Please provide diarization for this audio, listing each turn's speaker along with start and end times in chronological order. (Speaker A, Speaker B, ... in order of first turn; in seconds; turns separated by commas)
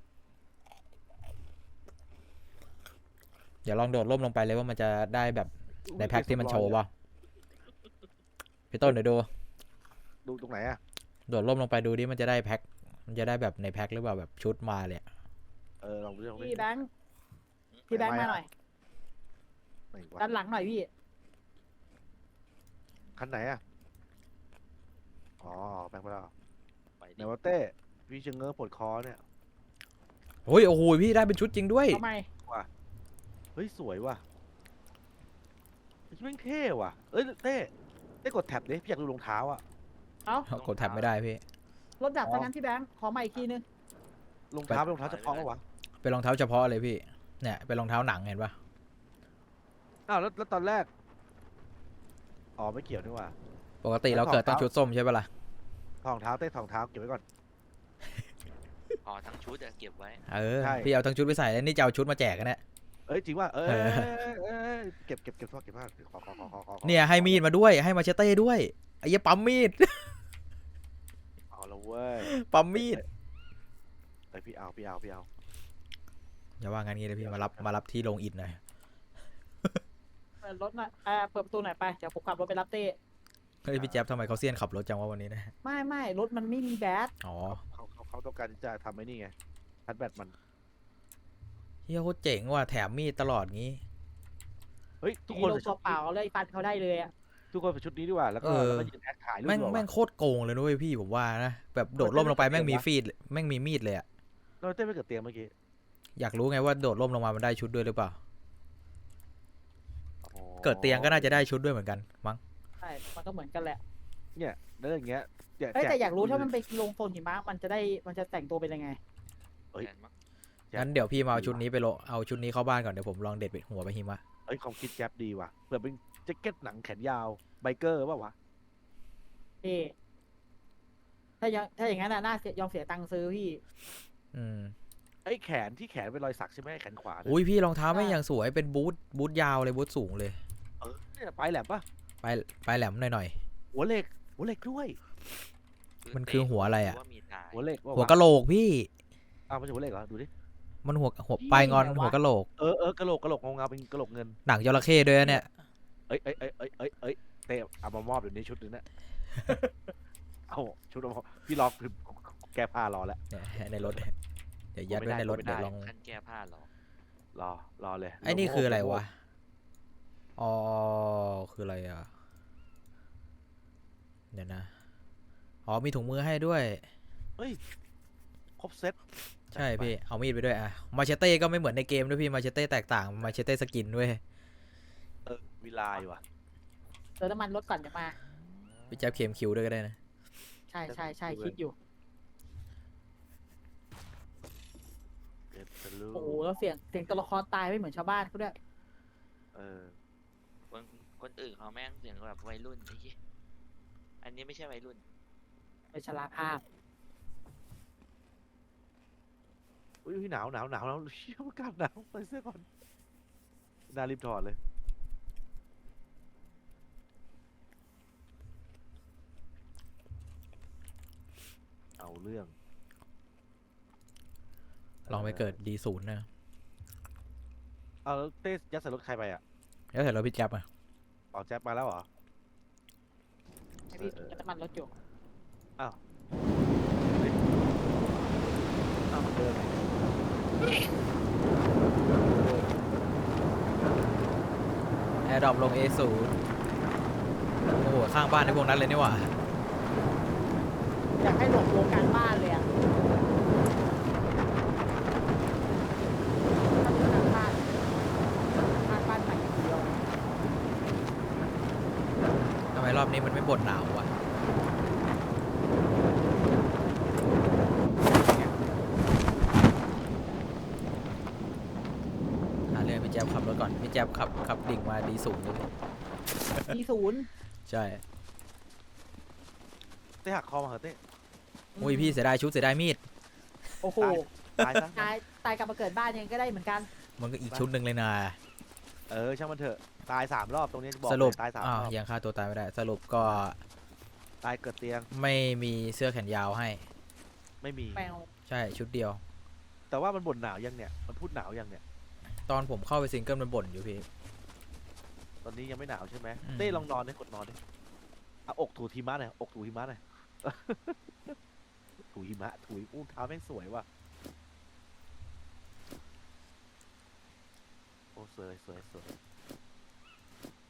Speaker A: 3.6-6.9, Speaker B: 5.9-6.8, Speaker A: 8.7-9.3, Speaker B: 10.2-10.8, Speaker A: 11.3-15.0, Speaker B: 15.8-16.7, Speaker C: 16.4-16.9, Speaker B: 17.9-18.4, Speaker C: 17.9-18.5, Speaker B: 19.9-20.2, Speaker C: 20.2-20.9, Speaker B: 23.2-23.6, Speaker B: 25.4-26.3, Speaker D: 27.0-27.3, Speaker B: 27.2-29.2, Speaker A: 30.4-32.0, Speaker C: 31.9-32.3, Speaker B: 33.5-34.2, Speaker B: 36.1-37.7, Speaker B: 38.2-39.6, Speaker A: 40.5-41.4, Speaker B: 40.5-41.1, Speaker C: 42.0-43.6, Speaker B: 42.2-42.5, Speaker B: 44.5-45.6, Speaker D: 44.8-45.5, Speaker A: 46.0-48.5, Speaker B: 50.1-50.9, Speaker B: 52.6-53.4, Speaker A: 53.8-55.3, Speaker B: 54.1-54.7, Speaker B: 56.0-57.2, Speaker D: 59.0-60.2, Speaker A: 60.3-62.6, Speaker B: 60.6-60.9, Speaker B: 63.1-67.4, Speaker A: 63.6-64.1, Speaker A: 66.8-70.1, Speaker B: 71.5-73.0, Speaker A: 72.3-73.0, Speaker B: 74.3-75.3, Speaker A: 76.6-78.6, Speaker B: 77.2-77.7, Speaker C: 80.4-83.0, Speaker A: 83.7-85.5, Speaker B: 83.7-84.4, Speaker C: 85.6-87.1, Speaker A: 87.2-87.6, Speaker B: 87.5-89.3, Speaker B: 89.9-90.3, Speaker A: 91.9-93.8, Speaker B: 95.0-96.0, Speaker C: 95.3-97.1, Speaker B: 97.5-99.8, Speaker A: 98.4-98.9, Speaker A: 99.4-104.0, Speaker B: 102.0-102.8, Speaker B: 104.6-105.5, Speaker A: 106.2-108.2, Speaker B: 110.2-111.4, Speaker A: 110.6-112.4, Speaker C: 112.8-113.8, Speaker B: 114.3-116.5, Speaker C: 115.7-119.0, Speaker D: 119.8-120.1, Speaker B: 120.7-121.6, Speaker A: 120.8-124.2, Speaker B: 124.5-128.3, Speaker C: 129.6-129.9, Speaker C: 131.4-133.6, Speaker A: 134.3-134.7, Speaker B: 135.2-137.4, Speaker A: 137.2-140.4, Speaker C: 137.9-138.2, Speaker B: 140.8-141.8, Speaker A: 142.2-143.4, Speaker B: 143.7-145.0, Speaker D: 146.0-147.6, Speaker A: 146.1-147.0, Speaker B: 147.5-148.2, Speaker A: 147.9-148.9, Speaker B: 149.5-150.3, Speaker A: 150.8-152.5, Speaker C: 151.4-152.2, Speaker B: 152.6-154.4, Speaker A: 154.4-155.5, Speaker B: 156.1-158.8, Speaker A: 159.4-159.7, Speaker B: 160.5-163.2, Speaker A: 163.3-164.1, Speaker B: 163.8-164.0, Speaker A: 164.7-165.9, Speaker B: 164.9-165.5, Speaker D: 165.3-166.7, Speaker B: 167.3-169.0, Speaker A: 168.2-169.1, Speaker A: 170.4-172.1, Speaker A: 174.3-174.7, Speaker A: 175.7-176.8, Speaker B: 178.6-179.0, Speaker B: 179.5-179.9, Speaker A: 179.5-184.2, Speaker B: 185.2-186.2, Speaker C: 187.2-188.1, Speaker A: 188.9-190.0, Speaker C: 190.7-191.7, Speaker B: 190.9-191.5, Speaker B: 195.5-196.6, Speaker C: 196.1-198.5, Speaker B: 199.5-199.9, Speaker D: 200.7-203.1, Speaker D: 204.2-205.0, Speaker C: 205.9-206.6, Speaker B: 210.0-212.7, Speaker B: 213.9-214.6, Speaker B: 222.0-222.5, Speaker B: 225.1-225.6, Speaker A: 225.1-226.3, Speaker B: 228.0-229.4, Speaker A: 229.9-230.7, Speaker B: 231.3-232.1, Speaker B: 233.9-234.4, Speaker C: 233.9-234.9, Speaker B: 237.1-237.4, Speaker B: 239.1-239.8, Speaker B: 242.1-242.7, Speaker A: 245.2-246.3, Speaker A: 247.7-249.3, Speaker C: 251.2-252.7, Speaker C: 256.8-257.6, Speaker C: 258.7-259.9, Speaker A: 262.7-264.1, Speaker B: 268.0-268.8, Speaker A: 272.7-275.7, Speaker C: 276.7-277.3, Speaker A: 277.7-278.0, Speaker B: 280.2-281.0, Speaker C: 281.7-282.2, Speaker A: 281.8-283.0, Speaker C: 283.8-284.3, Speaker B: 284.0-285.1, Speaker C: 284.9-286.9, Speaker A: 287.2-288.4, Speaker B: 289.1-291.9, Speaker A: 291.0-293.6, Speaker B: 294.4-295.1, Speaker A: 295.1-296.8, Speaker B: 297.6-298.1, Speaker C: 297.9-298.3, Speaker A: 298.5-299.2, Speaker B: 299.9-301.8, Speaker A: 302.5-304.1, Speaker B: 305.4-307.6, Speaker A: 306.4-306.9, Speaker B: 308.5-311.4, Speaker B: 312.0-313.9, Speaker B: 318.1-319.2